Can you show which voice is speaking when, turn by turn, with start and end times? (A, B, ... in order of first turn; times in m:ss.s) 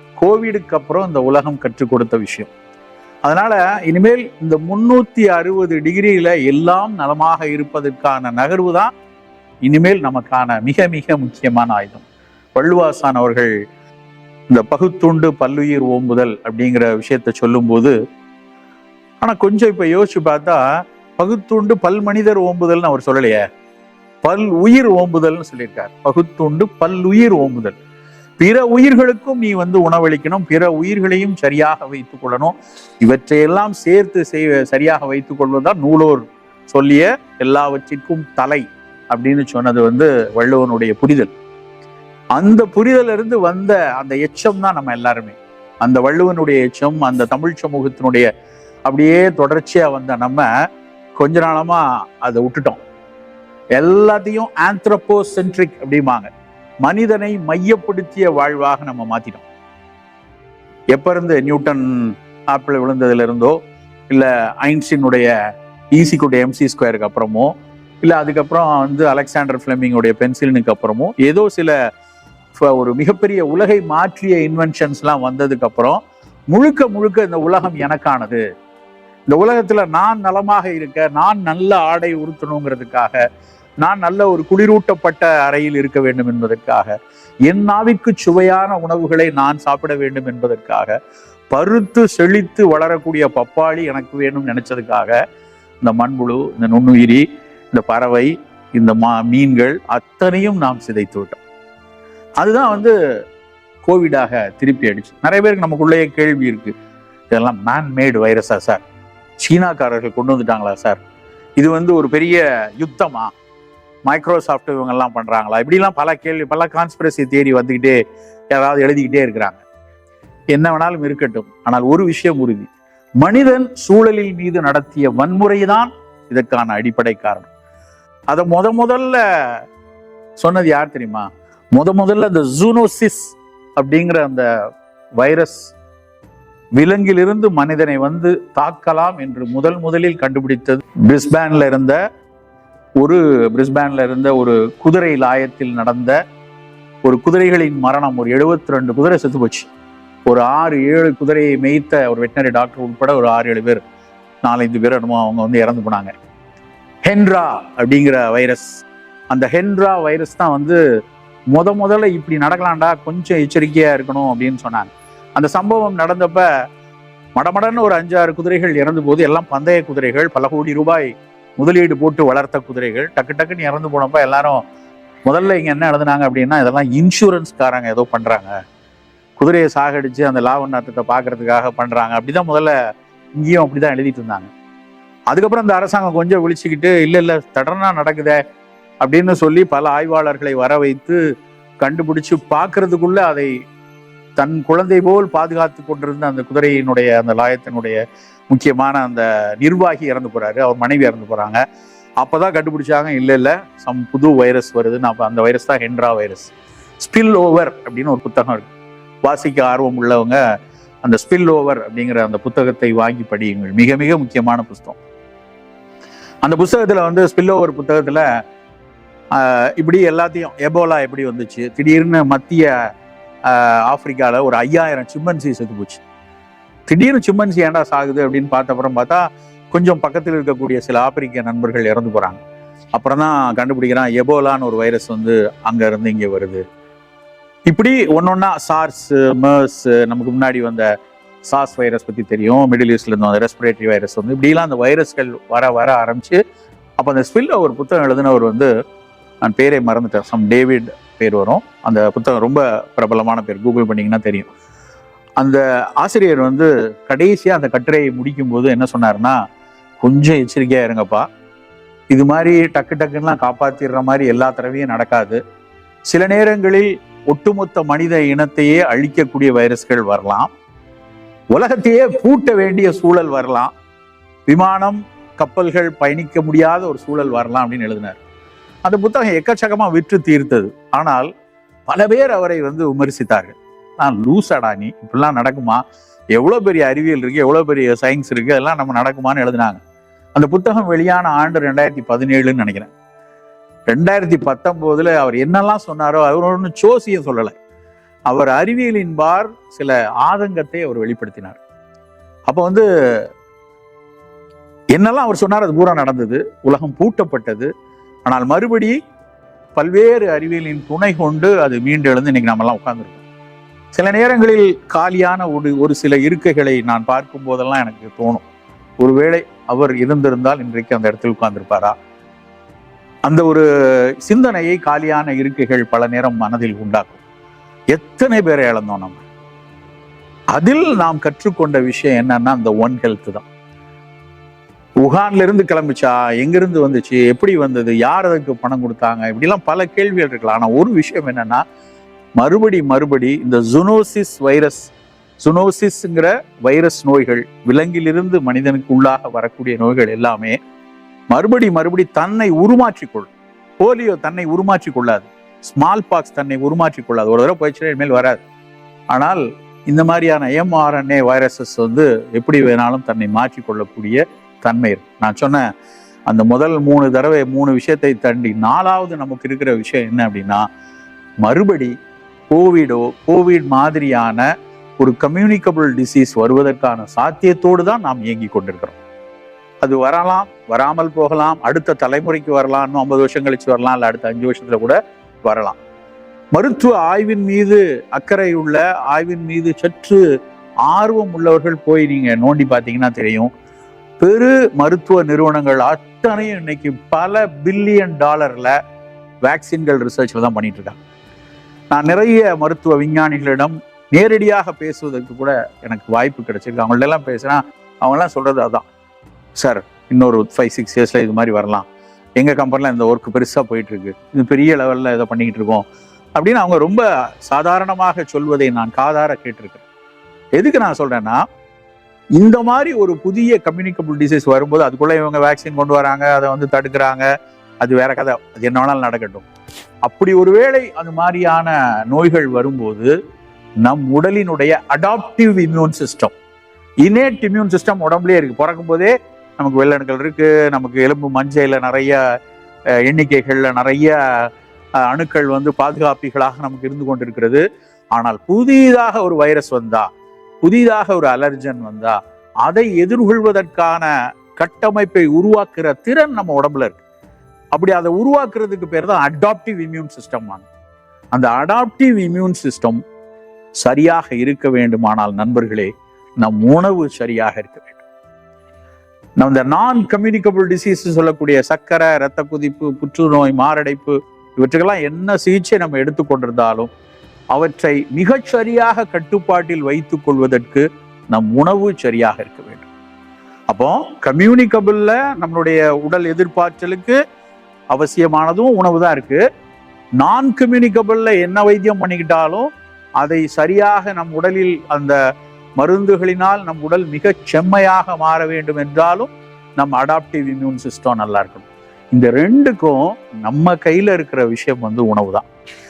0:00.2-0:02.5 A
0:03.2-0:08.9 A
0:09.6-0:12.0 A
0:12.6-0:13.5 A
0:14.5-0:17.9 A
0:19.2-0:20.6 A
0:21.2-0:23.4 A
0:24.2-0:27.7 A
0:28.4-0:41.3 A
0:42.4-0:48.3 A
0:48.8-0:50.5 A
0:51.2-0:52.8 A
0:53.8-0:56.3 A
0:56.8-0:59.4 A
1:00.9-1:03.6 A
1:04.1-1:05.3 A
1:05.9-1:07.5 A
1:08.0-1:11.7 A
1:12.6-1:18.4 A
1:19.3-1:23.2 A
1:23.8-1:26.9 A
1:27.5-1:30.9 A
1:31.5-1:35.1 A
1:35.8-1:41.4 A
1:42.4-1:42.9 A
1:43.8-1:46.7 A
1:47.3-1:48.8 A
1:49.4-1:51.0 A
1:51.6-1:53.3 A
1:54.0-1:58.0 A
1:58.5-1:59.6 A
2:00.5-2:07.5 A
2:08.3-2:09.6 A
2:10.4-2:14.4 A
2:15.2-2:15.7 A
2:16.8-2:22.0 A
2:23.0-2:26.2 A
2:27.0-2:29.7 A
2:30.2-2:33.8 A
2:34.4-2:36.1 A
2:37.0-2:40.8 A
2:41.5-2:46.4 A
2:47.4-2:54.6 A
2:55.3-2:58.5 A
2:59.4-3:02.7 A
3:03.4-3:04.5 A
3:05.3-3:08.4 A
3:09.0-3:11.2 A
3:11.8-3:13.5 A
3:14.4-3:18.0 A
3:18.5-3:21.6 A
3:22.2-3:28.7 A
3:29.2-3:30.4 A
3:31.0-3:35.0 A
3:36.4-3:38.2 A
3:39.3-3:42.7 A
3:43.5-3:46.0 A
3:46.9-3:52.4 A
3:53.0-3:56.6 A
3:57.7-4:00.8 A
4:01.4-4:06.4 A
4:07.0-4:08.7 A
4:09.4-4:14.5 A
4:15.4-4:19.4 A
4:20.0-4:21.2 A
4:22.1-4:25.4 A
4:26.1-4:30.5 A
4:31.5-4:33.7 A
4:34.5-4:38.2 A
4:38.8-4:41.3 A
4:41.9-4:45.8 A
4:46.3-4:49.8 A
4:50.3-4:52.9 A
4:53.9-4:57.5 A
4:58.3-5:01.6 A
5:02.5-5:03.2 A
5:04.9-5:07.7 A
5:08.2-5:09.0 A
5:09.8-5:13.2 A
5:13.9-5:18.4 A
5:19.0-5:21.9 A
5:23.2-5:23.6 A
5:24.2-5:27.2 A
5:27.9-5:29.2 A
5:30.5-5:33.4 A
5:35.0-5:41.6 A
5:42.4-5:50.6 A
5:51.3-5:58.4 A
5:59.1-6:05.6 A
6:06.3-6:10.6 A
6:11.4-6:11.9 A
6:12.5-6:14.4 A
6:15.0-6:19.0 A
6:19.8-6:25.8 A
6:26.5-6:30.2 A
6:30.8-6:33.5 A
6:34.2-6:38.7 A
6:39.4-6:41.0 A
6:41.9-6:48.8 A
6:49.6-6:51.8 A
6:52.4-6:55.8 A
6:56.4-6:59.8 A
7:00.6-7:01.4 A
7:02.4-7:07.3 A
7:07.8-7:09.5 A
7:10.0-7:13.1 A
7:13.8-7:16.3 A
7:17.0-7:22.2 A
7:23.0-7:24.5 A
7:25.0-7:30.1 A
7:30.6-7:37.0 A
7:37.7-7:40.7 A
7:41.3-7:43.0 A
7:43.8-7:48.0 A
7:49.4-7:56.9 A
7:57.5-8:02.9 A
8:03.7-8:07.2 A
8:07.9-8:09.4 A
8:10.2-8:12.7 A
8:13.2-8:15.2 A
8:15.8-8:25.4 A